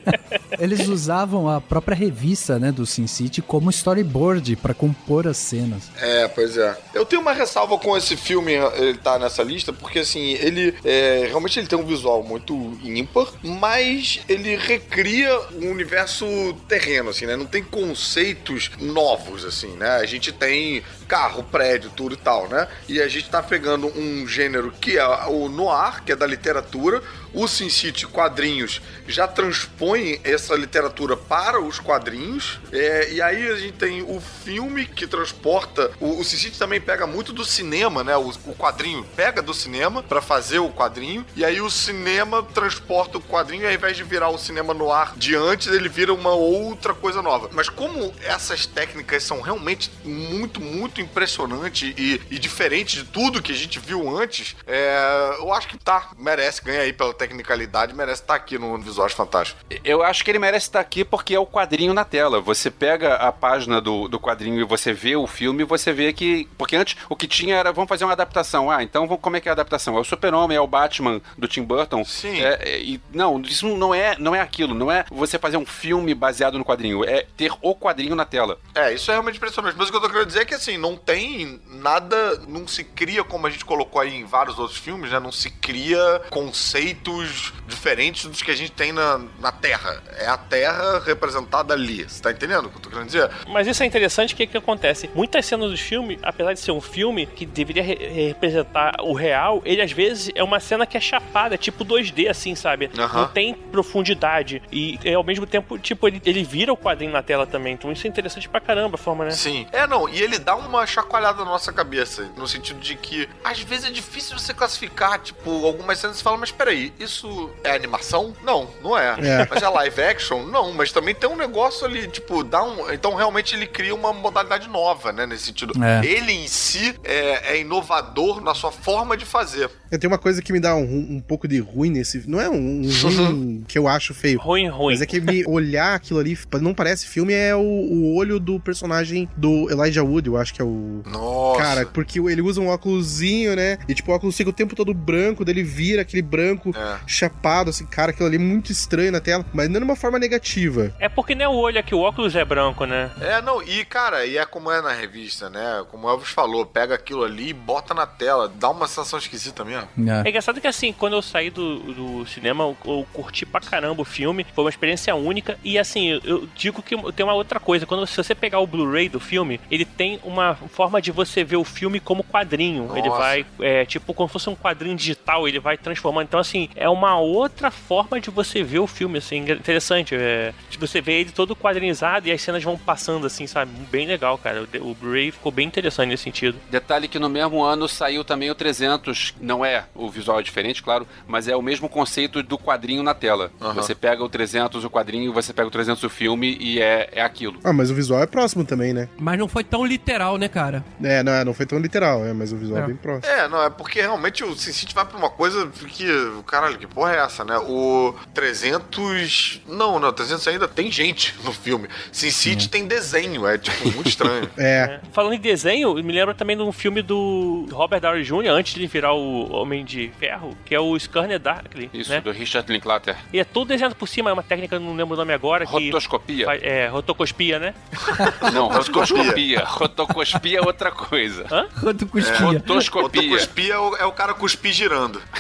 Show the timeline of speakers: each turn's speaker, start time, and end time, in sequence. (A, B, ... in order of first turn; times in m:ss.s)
0:00.6-0:05.9 A
0:06.0-0:59.6 B
0:59.7-1:18.6 C
1:12.1-1:12.5 B
1:18.7-1:33.4 B
1:33.5-1:49.4 D
1:42.9-1:43.3 B
1:49.3-2:09.7 B
1:59.2-1:59.6 E
2:05.8-2:06.1 A
2:09.9-2:30.9 E
2:12.9-2:13.4 B
2:14.4-2:15.2 D
2:21.1-2:21.9 B
2:26.7-2:27.0 B
2:31.0-2:33.2 D
2:33.2-2:39.9 B
2:40.0-2:40.3 A
2:40.2-3:06.6 D
2:52.9-2:53.4 B
3:06.7-3:17.6 C
3:13.6-3:13.9 B
3:17.6-3:19.1 E
3:19.2-3:20.9 F
3:21.0-3:23.2 E
3:23.2-3:34.5 B
3:34.6-3:34.9 E
3:34.7-3:42.2 D
3:41.9-3:43.2 C
3:43.3-3:49.3 D
3:45.6-3:46.6 C
3:48.4-3:49.4 B
3:48.4-3:51.5 C
3:51.8-3:52.7 F
3:52.2-3:55.2 B
3:52.3-3:53.5 C